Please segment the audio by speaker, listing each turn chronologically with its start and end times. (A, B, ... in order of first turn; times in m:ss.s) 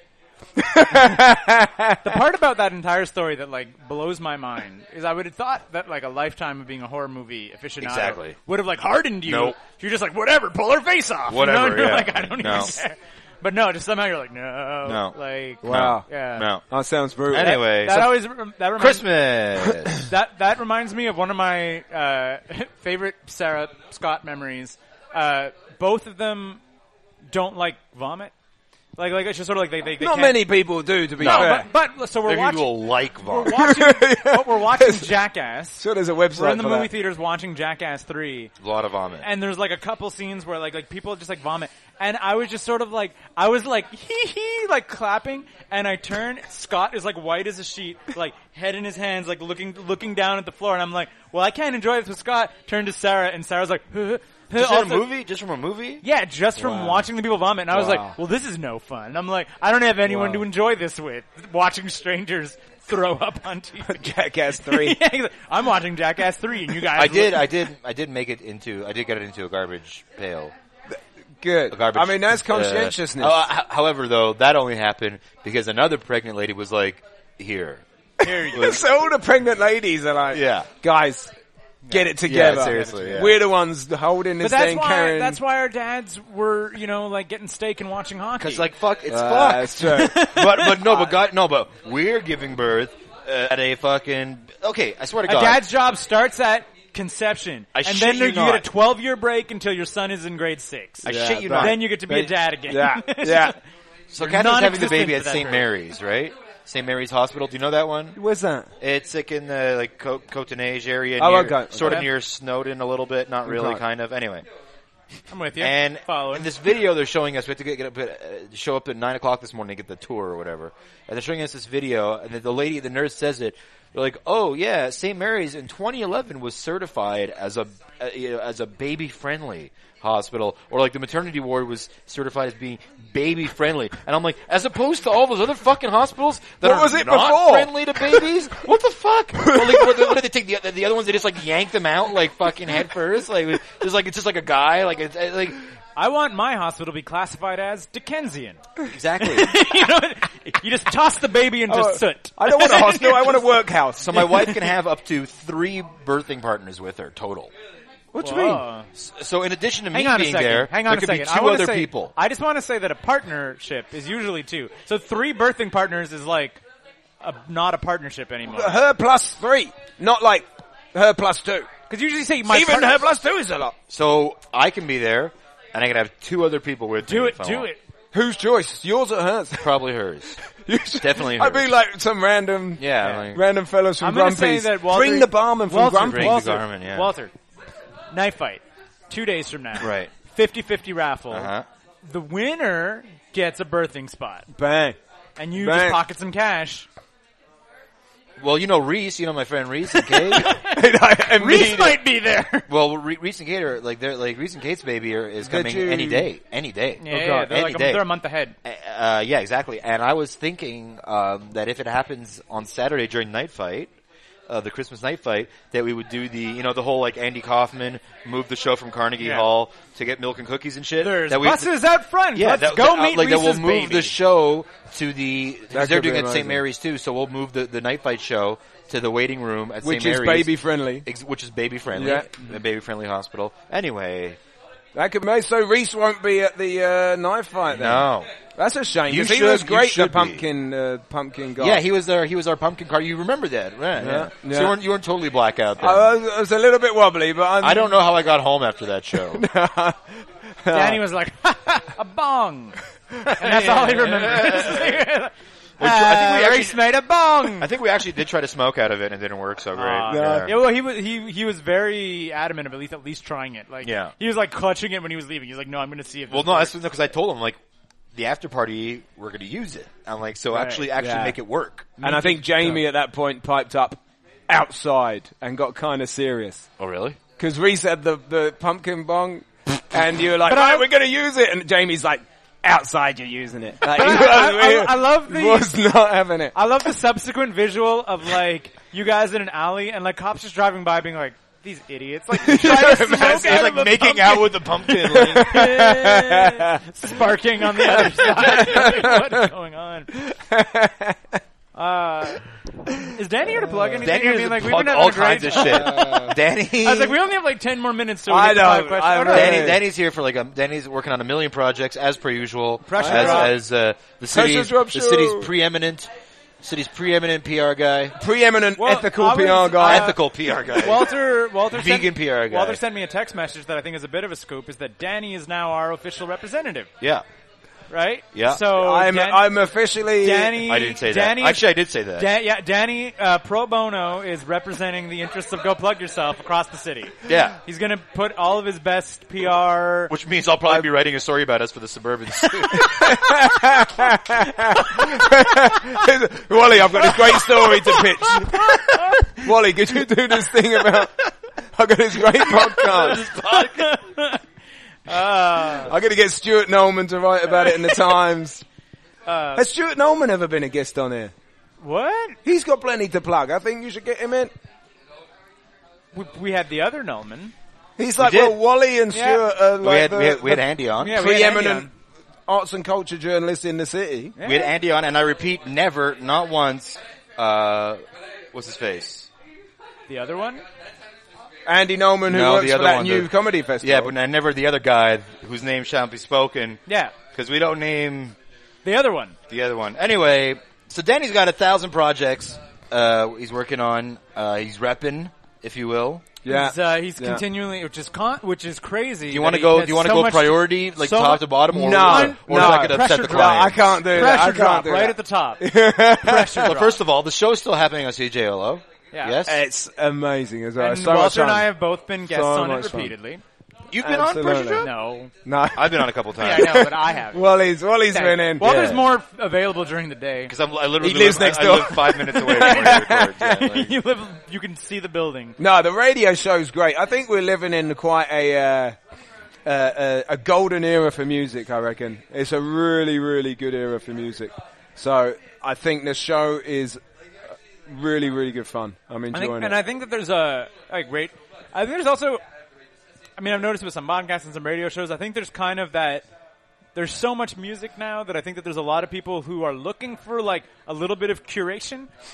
0:00.6-0:02.2 A
0:02.0-0:16.5 B
0:07.8-0:08.4 C
0:09.2-0:09.6 C
0:11.3-0:12.8 C
0:14.8-0:16.6 C
0:15.6-0:16.0 A
0:16.7-0:17.6 A
0:17.3-0:18.2 C
0:17.4-0:19.0 B
0:18.8-0:20.1 C
0:19.9-0:26.6 B
0:27.3-0:28.3 B
0:29.0-0:30.5 B
0:30.0-0:31.6 A
0:31.2-0:38.5 B
0:31.2-0:31.6 C
0:32.2-0:33.6 C
0:33.5-0:35.1 A
0:35.8-0:36.9 A
0:38.6-0:39.3 C
0:39.2-0:55.1 B
0:54.5-0:56.0 C
0:56.0-1:07.6 B
0:56.6-0:57.0 A
0:57.7-0:58.1 A
1:00.0-1:00.4 A
1:03.8-1:05.0 A
1:06.9-1:10.5 C
1:10.9-1:13.4 A
1:11.7-1:17.8 C
1:18.2-1:18.8 B
1:18.2-1:21.3 A
1:18.5-1:18.8 C
1:20.3-1:20.7 C
1:21.8-1:23.3 B
1:21.9-1:25.4 A
1:22.2-1:23.4 C
1:24.4-1:28.7 B
1:28.4-1:35.6 C
1:29.1-1:30.2 A
1:29.8-1:31.2 B
1:35.2-1:43.6 B
1:37.7-1:38.6 C
1:41.0-1:41.9 C
1:41.0-1:43.6 A
1:44.1-1:48.2 C
1:44.2-1:45.7 B
1:48.2-1:48.7 A
1:48.8-1:54.4 C
1:51.2-1:52.1 A
1:53.4-1:53.8 A
1:55.3-1:56.5 B
1:55.6-2:25.6 C
2:16.6-2:18.2 A
2:19.4-2:20.2 A
2:26.0-2:28.6 B
2:28.8-2:29.5 C
2:29.2-2:33.4 B
2:31.7-2:34.5 A
2:34.0-2:37.5 C
2:38.1-2:38.6 A
2:38.2-2:38.9 B
2:38.9-2:42.1 C
2:39.9-2:46.6 B
2:47.2-2:48.8 B
2:48.4-2:51.7 A
2:51.9-2:53.0 B
2:52.5-2:53.7 A
2:53.9-2:57.7 C
2:57.0-2:57.8 B
2:58.1-2:59.8 A
2:59.6-3:00.4 C
3:00.5-3:06.6 A
3:01.0-3:01.7 C
3:02.8-3:03.4 C
3:04.0-3:07.3 B
3:06.0-3:07.1 C
3:08.1-3:11.5 B
3:09.8-3:10.1 C
3:11.3-3:11.6 C
3:12.0-3:14.5 B
3:14.5-3:15.0 A
3:15.4-3:16.9 B
3:15.6-3:16.0 A
3:18.4-3:20.6 C
3:19.9-3:22.6 B
3:20.6-3:22.0 A
3:22.7-3:28.1 C
3:25.4-3:26.3 A
3:27.0-3:28.5 B
3:27.1-3:27.5 A
3:28.6-3:33.9 C
3:34.5-3:41.7 C
3:39.2-3:39.4 B
3:41.0-3:44.1 B
3:42.3-3:54.4 C
3:45.7-3:46.6 A
3:49.8-3:51.0 A
3:51.9-3:52.5 A
3:54.9-4:01.8 A
3:57.7-3:58.3 C
3:59.1-4:00.4 C
4:01.6-4:06.1 C
4:04.0-4:04.8 A
4:05.8-4:08.0 A
4:07.6-4:09.4 C
4:09.2-4:11.0 A
4:10.7-4:17.7 B
4:13.4-4:15.0 C
4:15.8-4:16.8 C
4:17.5-4:20.5 C
4:19.7-4:26.7 B
4:20.1-4:20.5 A
4:23.8-4:24.1 C
4:26.3-4:27.6 C
4:28.1-4:32.0 C
4:30.5-4:30.9 B
4:30.9-4:31.4 A
4:32.0-4:32.8 B
4:32.0-4:36.7 A
4:36.8-4:37.2 C
4:37.4-4:46.5 A
4:40.4-4:40.9 B
4:43.8-4:45.8 B
4:46.5-5:00.1 B
4:52.3-4:53.7 A
4:52.5-4:55.7 C
4:54.9-4:56.8 A
4:57.8-4:59.4 A
5:00.1-5:01.4 A
5:01.7-5:02.4 B
5:03.1-5:06.2 B
5:04.0-5:07.2 C
5:05.7-5:06.4 A
5:06.8-5:09.7 B
5:08.3-5:09.8 A
5:09.3-5:16.1 C
5:12.8-5:13.5 B
5:13.0-5:13.5 A
5:14.3-5:15.5 A
5:16.6-5:18.2 C
5:18.2-5:20.1 A
5:18.8-5:26.9 B
5:19.8-5:21.1 C
5:21.7-5:22.8 C
5:27.9-5:29.5 B
5:28.3-5:28.6 C
5:28.7-5:30.6 A
5:30.2-5:40.1 B
5:30.6-5:32.3 C
5:37.2-5:37.6 C
5:40.1-5:43.1 C
5:42.7-5:43.5 B
5:42.7-5:53.2 A
5:44.4-5:45.8 B
5:47.0-5:49.4 B
5:52.5-5:54.0 C
5:53.2-5:54.4 B
5:55.0-5:55.9 B
5:55.8-5:58.6 A
5:59.2-5:59.7 B
5:59.5-6:01.3 A
6:01.8-6:02.4 B
6:02.4-6:04.5 A
6:06.1-6:07.5 B
6:08.0-6:11.9 A
6:08.2-6:08.6 C
6:09.1-6:09.4 B
6:09.8-6:11.2 C
6:11.0-6:11.9 B
6:12.4-6:14.3 A
6:14.4-6:14.7 B
6:14.4-6:19.3 C
6:20.1-6:20.6 B
6:21.6-6:24.1 A
6:22.3-6:28.4 C
6:26.9-6:27.1 B
6:28.8-6:29.4 B
6:29.5-6:36.2 C
6:36.4-6:37.4 A
6:36.4-6:47.0 B
6:39.3-6:43.9 C
6:41.7-6:46.7 A
6:46.6-6:49.6 C
6:49.1-6:49.4 B
6:49.4-6:51.7 A
6:50.8-6:53.4 B
6:52.2-6:53.1 A
6:53.9-6:55.1 C
6:54.0-6:54.9 A
6:54.8-6:55.3 B
6:55.4-6:58.9 A
6:55.7-6:56.9 C
6:56.4-6:57.5 B
6:58.1-7:00.5 B
6:58.6-6:59.0 C
7:00.5-7:03.9 C
7:01.0-7:03.7 A
7:02.5-7:05.6 B
7:05.6-7:09.0 A
7:09.6-7:17.0 A
7:17.8-7:19.8 A
7:19.3-7:22.4 B
7:23.4-7:26.3 B
7:26.9-7:32.1 B